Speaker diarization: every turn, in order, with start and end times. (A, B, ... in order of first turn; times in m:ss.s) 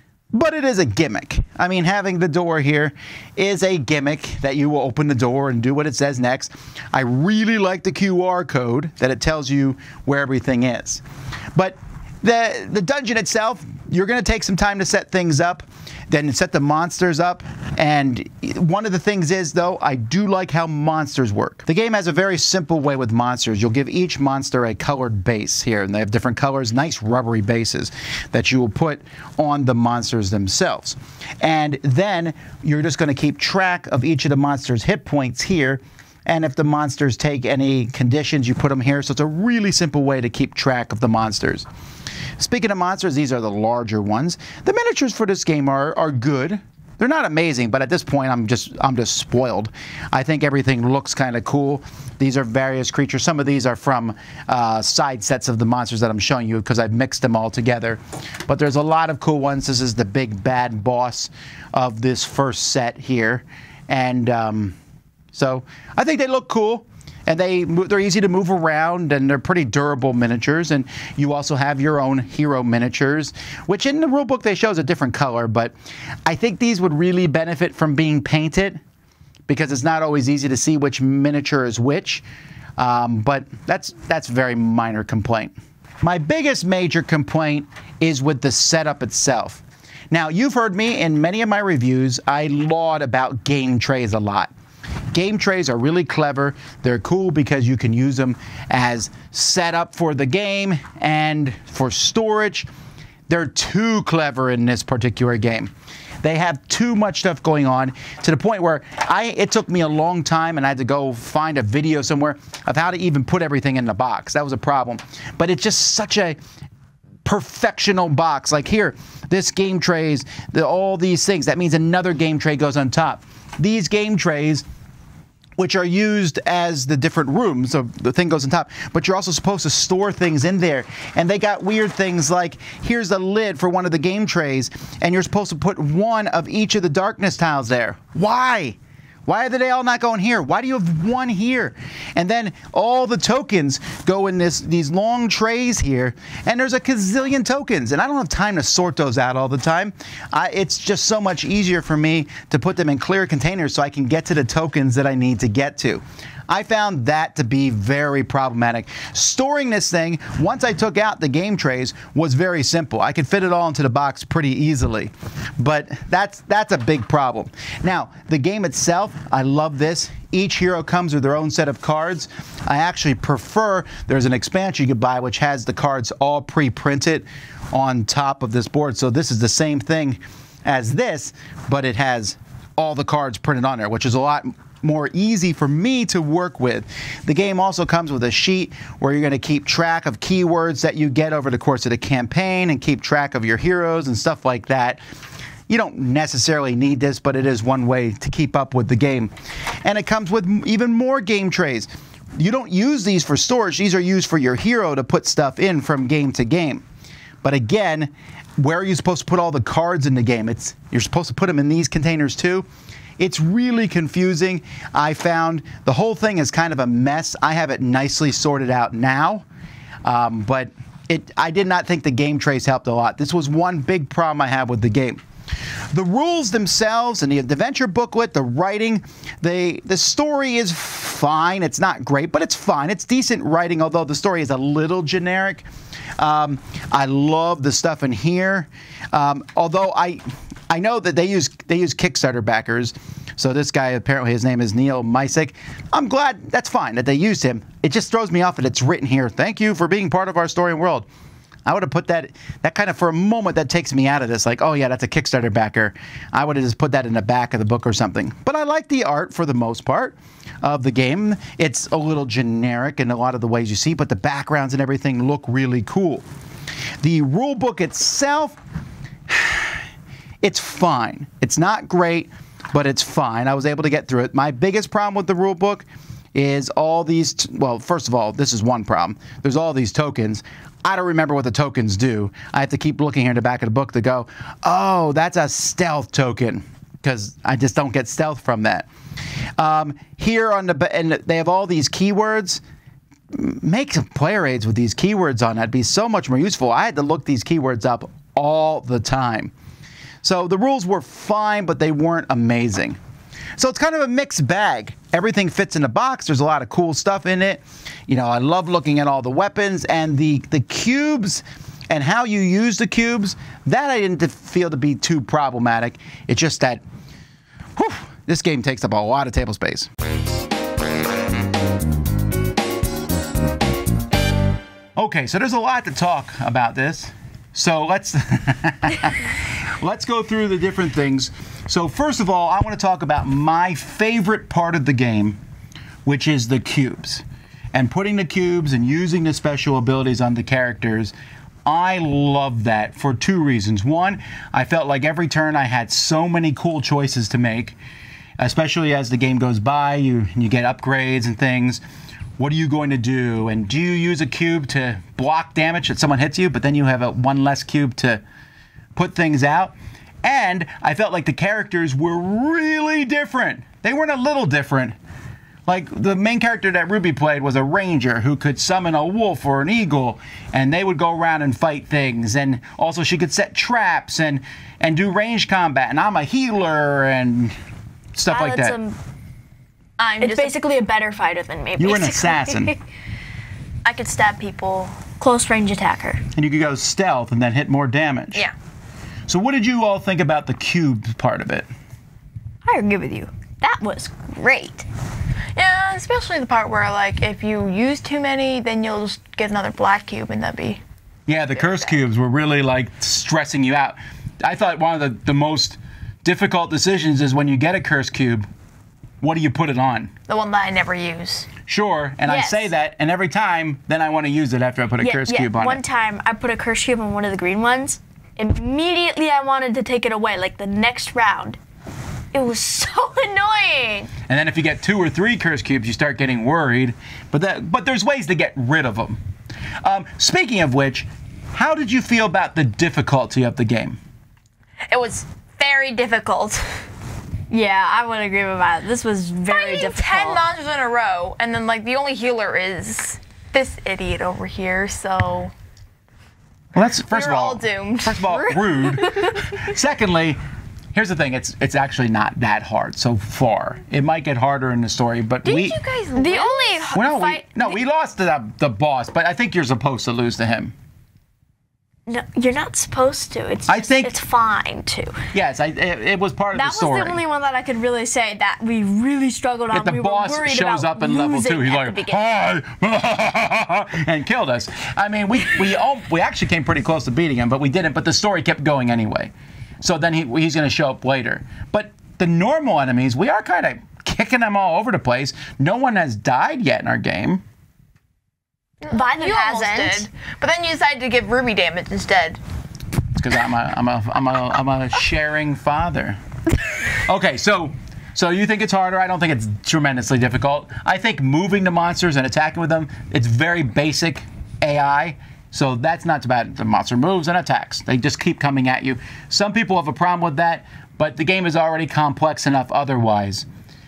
0:00.3-0:11.0 A
0:11.6-0:41.7 A
0:42.4-1:04.8 A
1:05.3-1:15.8 A
1:16.3-1:18.8 A
1:19.5-1:22.2 A
1:22.8-1:34.5 A
1:35.1-1:42.7 A
1:43.3-1:45.7 A
1:46.2-1:56.4 A
1:57.2-2:04.6 A
2:05.6-3:15.0 A
3:15.7-3:19.3 A
3:19.8-3:26.8 A
3:27.4-3:32.6 A
3:33.2-3:39.5 A
3:40.0-3:45.2 A
3:45.9-3:55.6 A
3:56.2-4:11.1 A
4:11.6-4:26.2 A
4:27.0-4:28.6 A
4:29.3-4:29.8 A
4:30.4-4:48.9 A
4:49.6-4:52.6 A
4:53.3-4:59.5 A
5:00.2-5:03.0 A
5:03.6-5:16.8 A
5:17.8-5:19.9 A
5:25.0-5:35.4 A
5:36.0-5:41.1 A
5:41.6-5:47.8 A
5:48.4-5:51.8 A
5:52.4-5:58.2 A
5:59.0-6:05.0 A
6:05.7-6:17.6 A
6:18.1-6:18.8 A
6:18.3-6:19.0 B
6:20.0-6:20.6 C
6:20.2-6:22.8 B
6:21.8-6:22.7 A
6:23.8-6:25.0 C
6:25.2-6:26.2 B
6:26.4-6:28.5 A
6:29.3-6:31.7 A
6:32.6-6:34.9 B
6:35.6-6:40.8 C
6:41.3-6:48.5 A
6:41.6-6:41.9 C
6:49.2-6:50.1 A
6:50.3-6:51.5 C
6:51.7-6:55.8 A
6:52.2-6:52.7 B
6:55.0-7:01.6 B
7:02.3-7:04.1 B
7:04.3-7:09.2 A
7:09.8-7:14.0 A
7:14.9-7:16.8 C
7:17.5-7:20.4 B
7:19.5-7:25.5 C
7:26.8-7:30.4 A
7:27.1-7:28.6 C
7:30.9-7:35.8 A
7:35.4-7:37.0 C
7:36.1-7:37.8 B
7:36.9-7:40.8 A
7:42.1-7:45.2 B
7:43.7-7:44.1 A
7:45.3-7:47.2 A
7:46.5-7:52.2 B
7:49.7-8:07.4 A
8:08.8-8:12.4 C
8:08.9-8:10.1 B
8:13.1-8:16.2 A
8:16.9-8:33.5 A